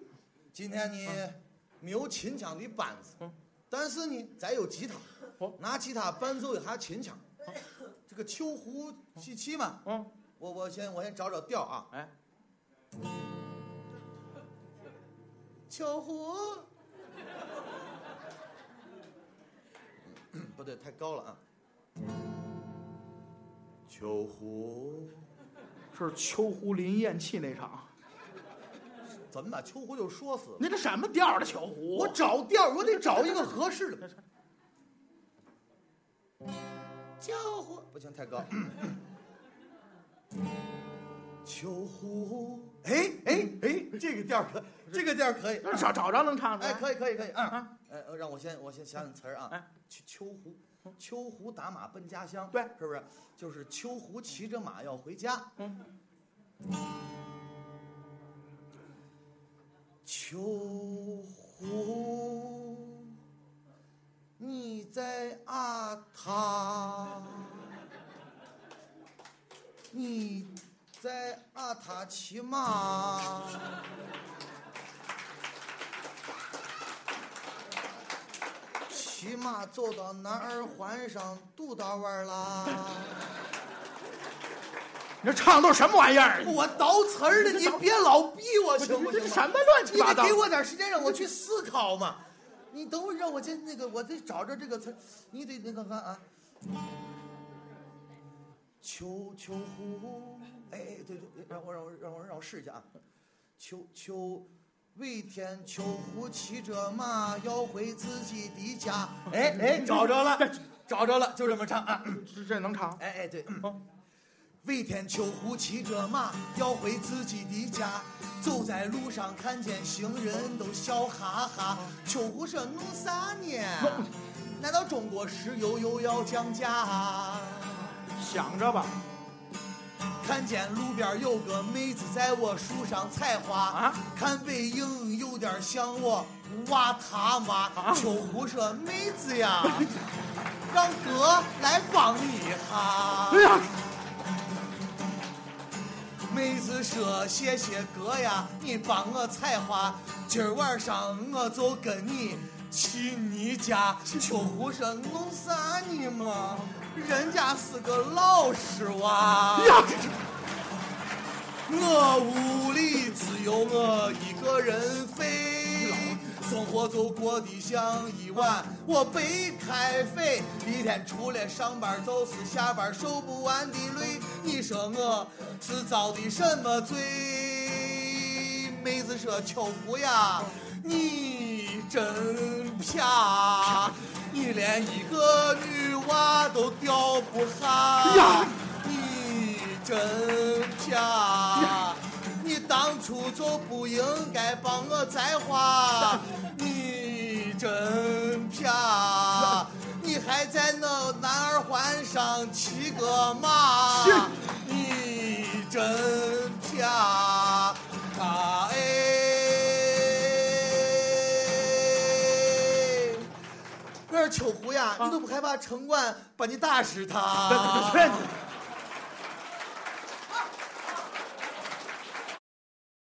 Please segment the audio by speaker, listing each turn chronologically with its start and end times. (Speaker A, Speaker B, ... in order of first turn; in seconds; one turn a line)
Speaker A: 0.5-3.2
Speaker A: 3.7-7.2
Speaker A: 8.1-9.9
Speaker A: 10.4-11.9
Speaker A: 15.7-16.7
Speaker A: 20.1-21.4
Speaker A: 23.9-25.2
Speaker B: 25.9-27.9
Speaker A: 29.3-30.6
Speaker B: 30.6-32.2
Speaker A: 31.9-34.1
Speaker A: 37.2-39.0
Speaker A: 41.4-45.9
Speaker B: 45.6-46.9
Speaker A: 46.6-55.5
Speaker A: 60.0-63.1
Speaker A: 64.4-67.7
Speaker A: 69.9-73.7
Speaker A: 78.9-83.2
Speaker B: 85.2-86.6
Speaker A: 86.4-92.2
Speaker B: 87.4-87.8
Speaker B: 88.8-90.4
Speaker A: 92.7-96.2
Speaker A: 98.8-102.8
Speaker A: 103.6-112.2
Speaker B: 109.8-110.5
Speaker B: 112.1-113.0
Speaker A: 113.0-113.7
Speaker A: 114.6-128.0
Speaker B: 123.8-124.1
Speaker B: 128.2-128.9
Speaker A: 130.2-139.9
Speaker B: 133.7-134.0
Speaker B: 137.8-138.0
Speaker A: 140.7-143.6
Speaker B: 143.3-143.7
Speaker A: 146.3-159.9
Speaker B: 159.6-160.2
Speaker A: 161.7-213.3
Speaker B: 165.9-166.2
Speaker B: 188.0-188.5
Speaker B: 203.9-204.3
Speaker A: 214.1-218.2
Speaker B: 217.5-218.3